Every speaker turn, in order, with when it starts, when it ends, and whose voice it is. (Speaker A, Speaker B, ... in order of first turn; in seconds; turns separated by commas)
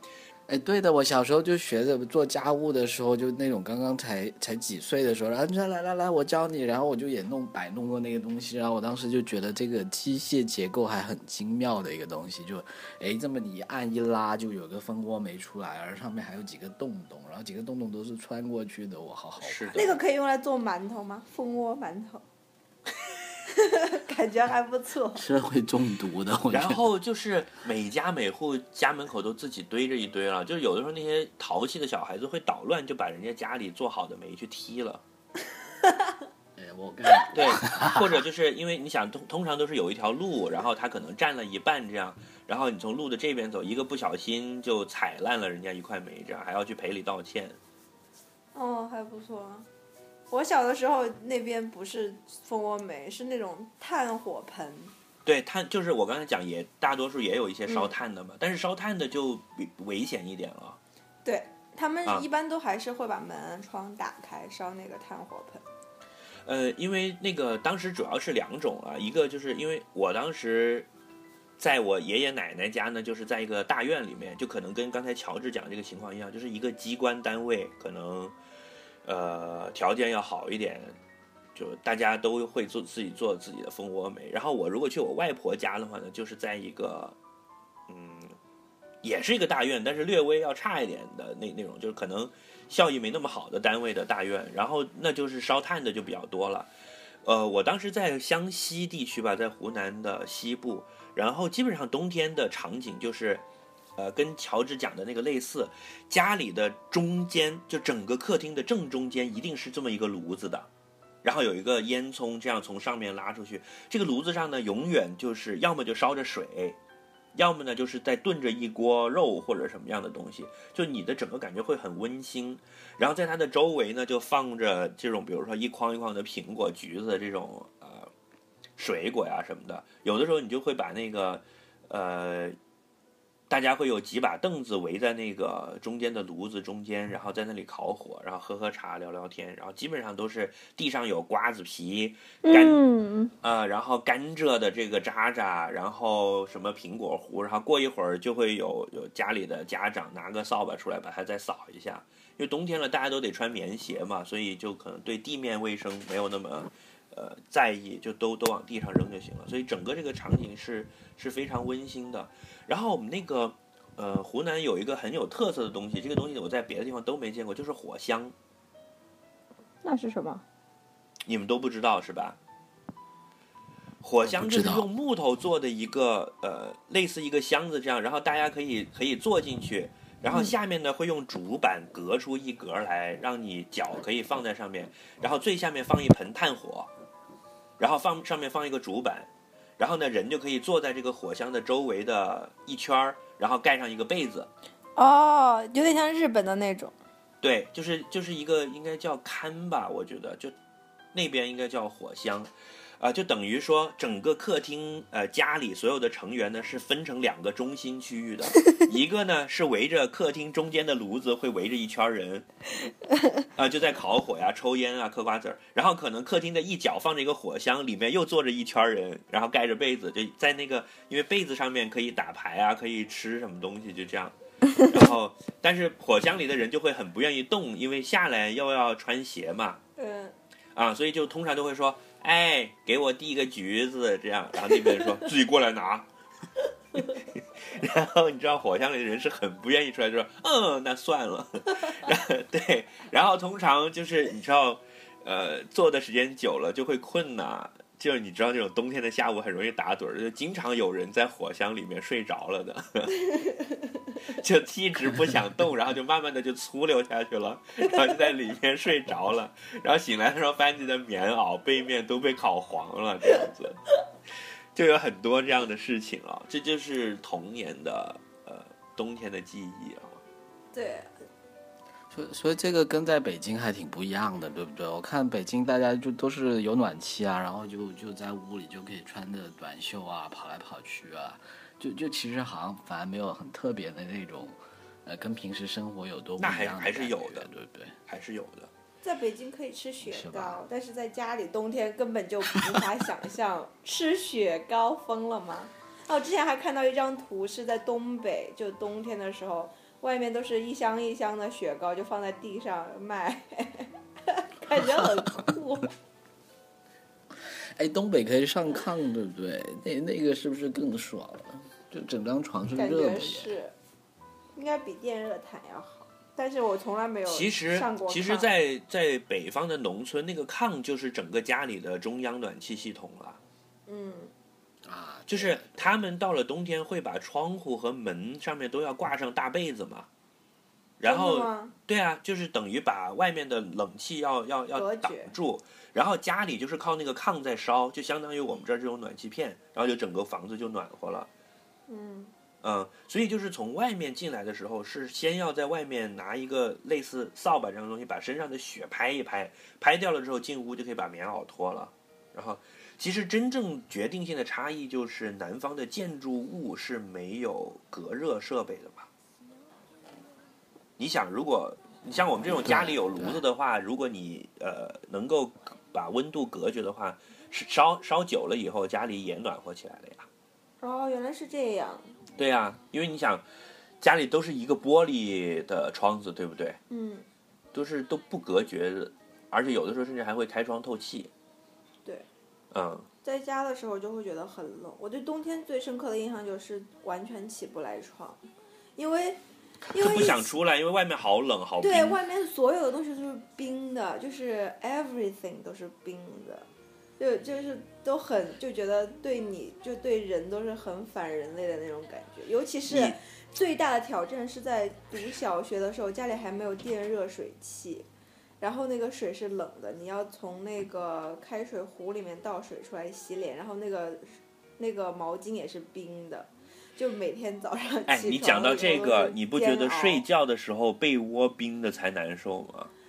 Speaker A: 0.5-19.9, Speaker B: 19.4-20.0, Speaker C: 19.8-22.2, Speaker C: 23.5-25.2, Speaker A: 25.1-26.9, Speaker B: 26.5-35.0, Speaker A: 36.5-38.2, Speaker B: 37.3-47.6, Speaker C: 48.5-49.7, Speaker C: 50.3-54.9, Speaker B: 55.2-60.8, Speaker C: 61.2-65.6, Speaker B: 66.4-70.9, Speaker B: 71.6-78.3, Speaker B: 79.0-80.9, Speaker B: 81.5-87.2, Speaker B: 87.9-88.3, Speaker B: 89.0-96.7, Speaker B: 97.2-103.4, Speaker B: 104.0-110.7, Speaker B: 111.2-116.8, Speaker B: 117.3-128.1, Speaker B: 128.8-132.6, Speaker B: 133.5-142.8, Speaker C: 142.4-143.3, Speaker B: 143.4-168.3, Speaker C: 169.8-170.4, Speaker B: 171.2-172.4, Speaker B: 174.0-186.9, Speaker A: 174.2-174.9, Speaker C: 180.3-180.5, Speaker B: 187.8-194.5, Speaker C: 194.9-196.9, Speaker B: 197.4-200.5, Speaker B: 201.1-212.4, Speaker B: 213.6-229.8, Speaker C: 230.0-230.3, Speaker B: 230.7-236.1, Speaker B: 237.6-253.2, Speaker B: 254.2-263.8, Speaker B: 264.7-270.2, Speaker C: 270.7-271.1, Speaker A: 272.1-287.9, Speaker B: 286.4-287.5, Speaker B: 288.1-288.7, Speaker C: 289.0-305.9, Speaker A: 290.1-290.6, Speaker A: 307.5-313.5, Speaker C: 312.8-313.7, Speaker C: 314.6-318.5, Speaker B: 317.2-323.4, Speaker C: 323.9-324.3, Speaker A: 324.9-325.9, Speaker B: 325.3-330.1, Speaker B: 331.0-341.3, Speaker C: 331.1-331.7, Speaker C: 334.7-335.3, Speaker C: 341.9-342.3, Speaker B: 342.6-359.1, Speaker B: 361.0-370.3, Speaker A: 362.4-363.4, Speaker C: 370.8-372.1, Speaker B: 372.4-373.4, Speaker B: 374.0-376.8, Speaker C: 376.9-377.2, Speaker B: 377.7-381.3, Speaker B: 382.7-383.1, Speaker C: 383.2-388.4, Speaker C: 389.0-389.4, Speaker C: 389.9-390.5, Speaker B: 389.9-392.2, Speaker C: 391.8-396.7, Speaker C: 397.2-408.1, Speaker B: 402.9-403.2, Speaker C: 408.6-420.2, Speaker B: 418.1-422.9